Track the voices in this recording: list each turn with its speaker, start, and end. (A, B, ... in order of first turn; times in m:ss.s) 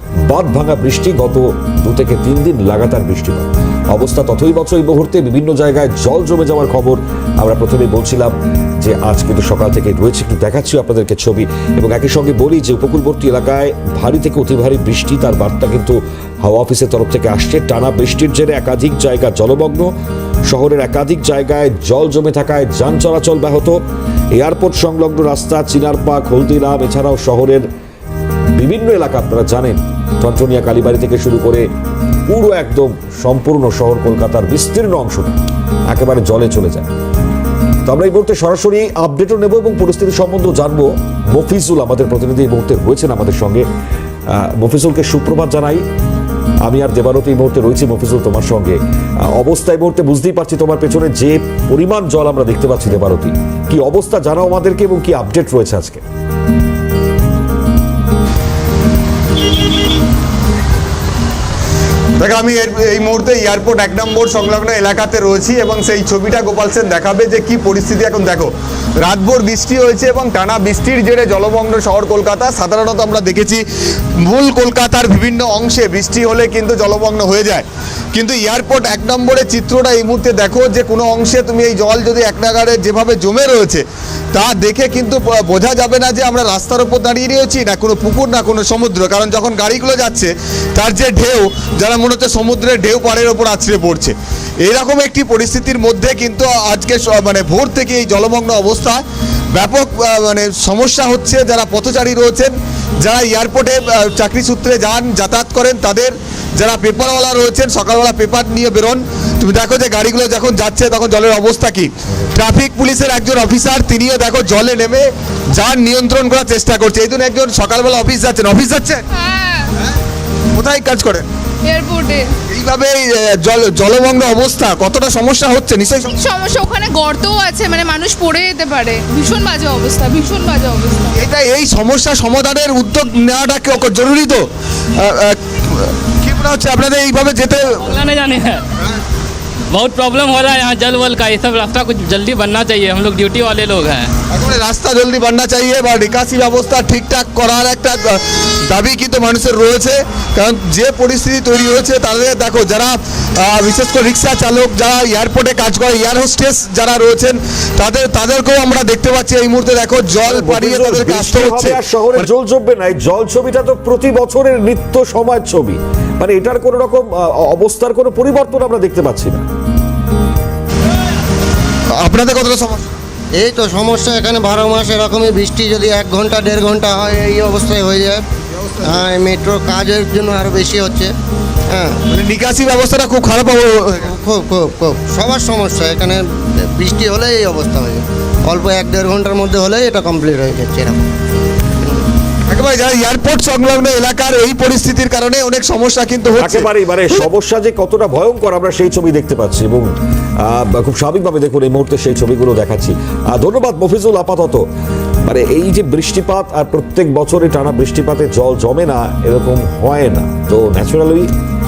0:00.2-0:19.9 A
0:20.5-0:23.8 A
0:24.3-0:27.7 A
0:28.6-0:31.6 A
0:32.3-0:36.9 A
0:37.8-0:43.6 A
0:44.3-0:45.8 A
0:46.6-0:56.0 A
1:02.2-1:13.6 B
1:14.2-1:39.0 B
1:39.5-1:59.0 B
1:59.1-1:59.7 C
2:00.5-2:01.3 B
2:01.6-2:02.3 C
2:02.5-2:06.2 B
2:06.1-2:11.2 C
2:11.1-2:17.8 B
2:17.6-2:18.6 D
2:19.7-2:24.1 D
2:24.3-2:42.2 B
2:40.2-2:49.4 A
2:52.0-2:52.9 B
2:53.4-2:58.2 E
2:58.7-2:59.0 B
2:58.8-3:01.1 E
3:01.7-3:02.0 E
3:02.1-3:04.1 B
3:04.0-3:11.1 E
3:12.5-3:17.2 B
3:16.4-3:24.6 A
3:25.2-3:31.3 A